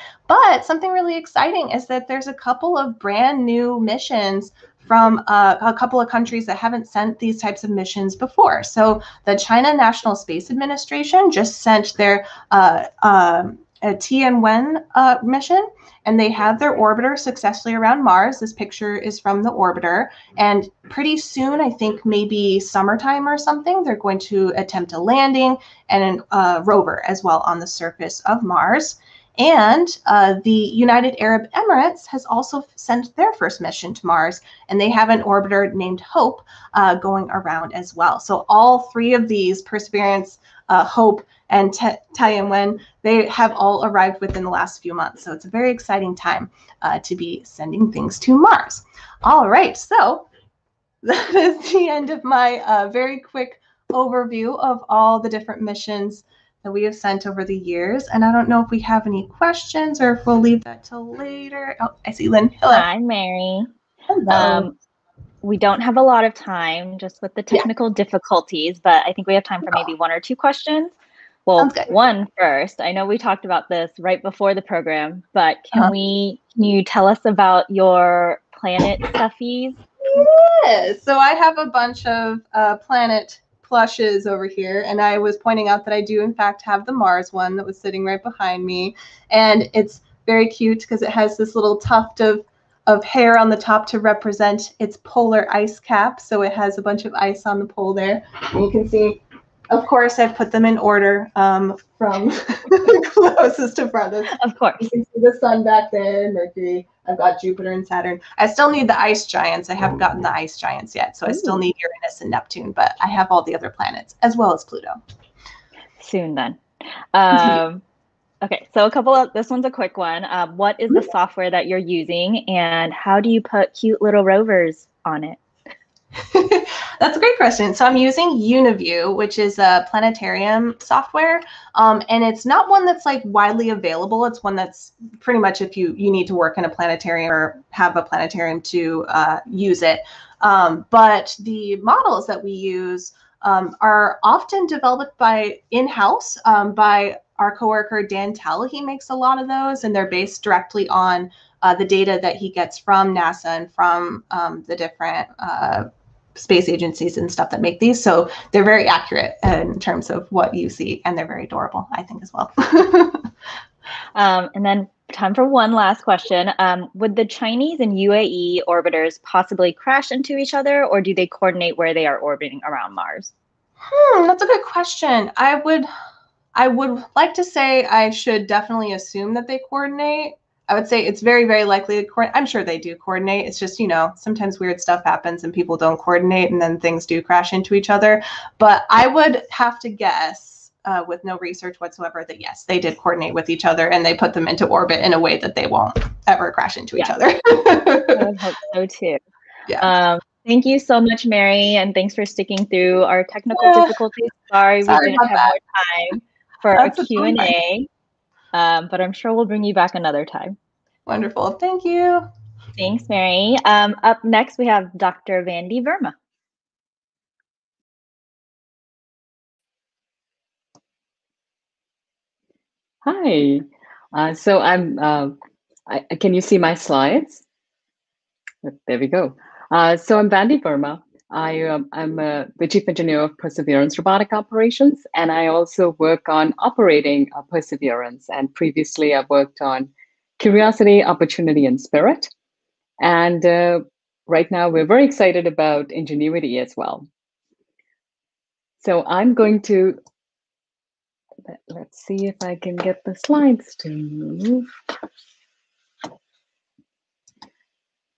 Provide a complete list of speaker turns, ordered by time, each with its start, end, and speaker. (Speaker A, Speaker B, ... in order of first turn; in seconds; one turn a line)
Speaker A: 0.3-50.3
Speaker A: 51.0-62.9
Speaker B: 62.7-63.7
Speaker A: 64.1-64.7
Speaker B: 64.3-64.7
Speaker B: 65.4-70.9
Speaker B: 71.5-79.8
Speaker A: 71.6-71.9
Speaker A: 80.1-115.0
Speaker B: 104.3-104.8
Speaker B: 116.0-116.6
Speaker B: 117.1-117.8
Speaker B: 118.4-125.4
Speaker A: 126.3-163.3
Speaker B: 164.2-173.3
Speaker A: 173.9-175.9
Speaker A: 176.6-198.2
Speaker B: 197.8-199.2
Speaker B: 199.8-207.9
Speaker A: 203.6-204.0
Speaker A: 204.8-205.6
Speaker A: 206.7-207.5
Speaker B: 208.5-210.6
Speaker A: 211.1-212.3
Speaker B: 212.8-216.1
Speaker C: 223.0-227.4
Speaker C: 228.6-242.3
Speaker C: 243.0-247.1
Speaker C: 248.8-250.0
Speaker C: 251.5-254.7